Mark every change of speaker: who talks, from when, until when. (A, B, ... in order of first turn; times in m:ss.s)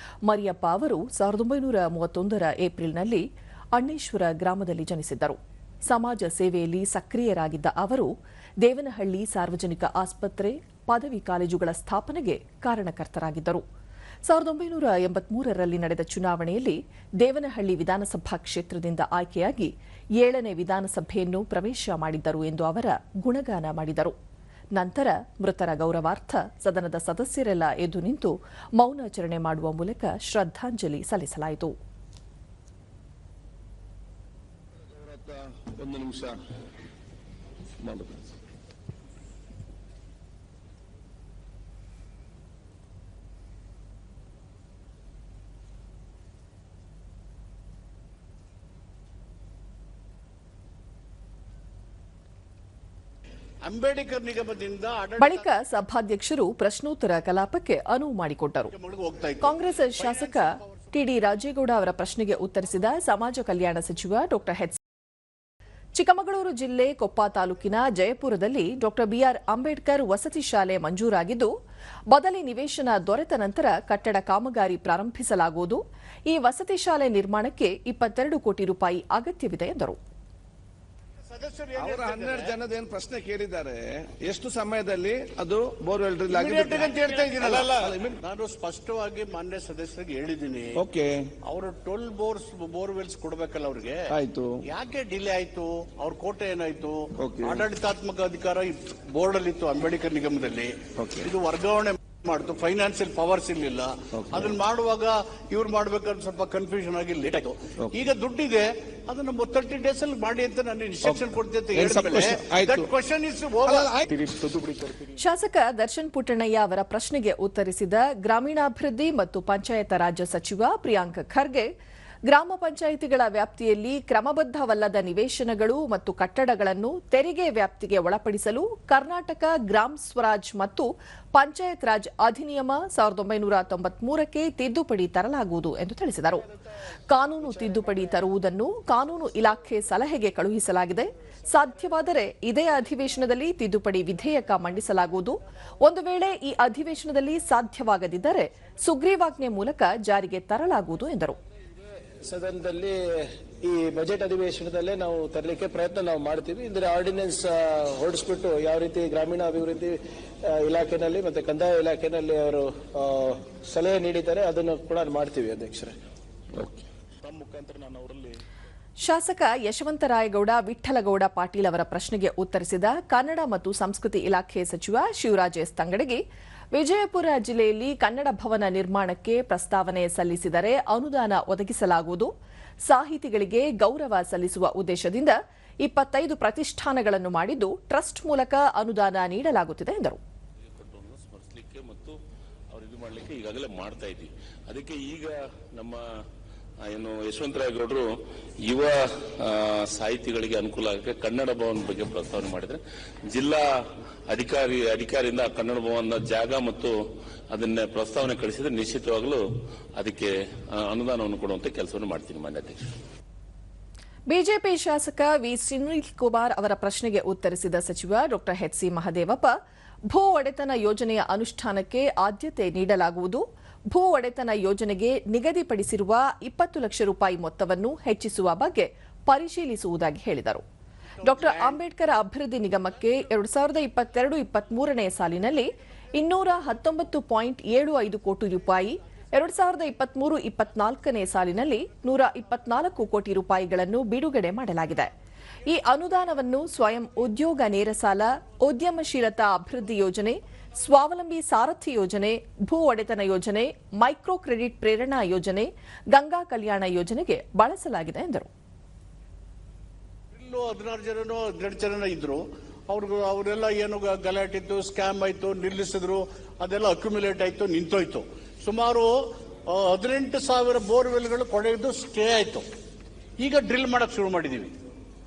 0:00.2-0:13.6 A
0:14.2-0:24.1 A
0:24.7-0:31.7 A
0:34.9-0:36.4 B
0:37.8-0:38.2 B
0:53.6-0:55.5 C
0:55.2-0:58.7 A
0:58.7-1:00.9 C
0:59.4-1:04.8 A
1:06.0-1:11.5 A
1:12.1-1:20.0 A
1:21.3-1:22.5 C
1:21.8-1:28.2 B
1:26.3-1:30.8 C
1:30.8-1:31.3 B
1:31.4-1:34.1 C
1:34.1-1:34.6 B
1:34.7-1:55.1 C
1:37.2-1:37.6 B
1:41.0-1:41.3 B
1:44.3-1:44.5 B
1:51.7-1:52.9 B
1:53.7-1:53.9 B
1:55.2-2:01.7 A
2:02.3-2:16.5 A
2:17.1-2:31.4 A
2:32.2-2:46.0 D
2:46.5-2:48.3 E
2:49.0-2:56.2 A
2:56.7-3:02.3 A
3:02.8-3:10.2 A
3:10.7-3:12.2 E
3:12.7-3:16.0 E
3:16.8-3:18.1 E
3:18.6-3:23.7 E
3:24.3-3:27.0 E
3:27.5-3:29.4 E
3:30.0-3:32.9 E
3:34.3-3:39.5 A
3:40.1-3:50.6 A
3:51.2-3:51.8 C
3:51.2-4:05.1 A
4:05.6-4:18.5 A
4:20.3-4:32.6 C
4:33.4-4:34.7 C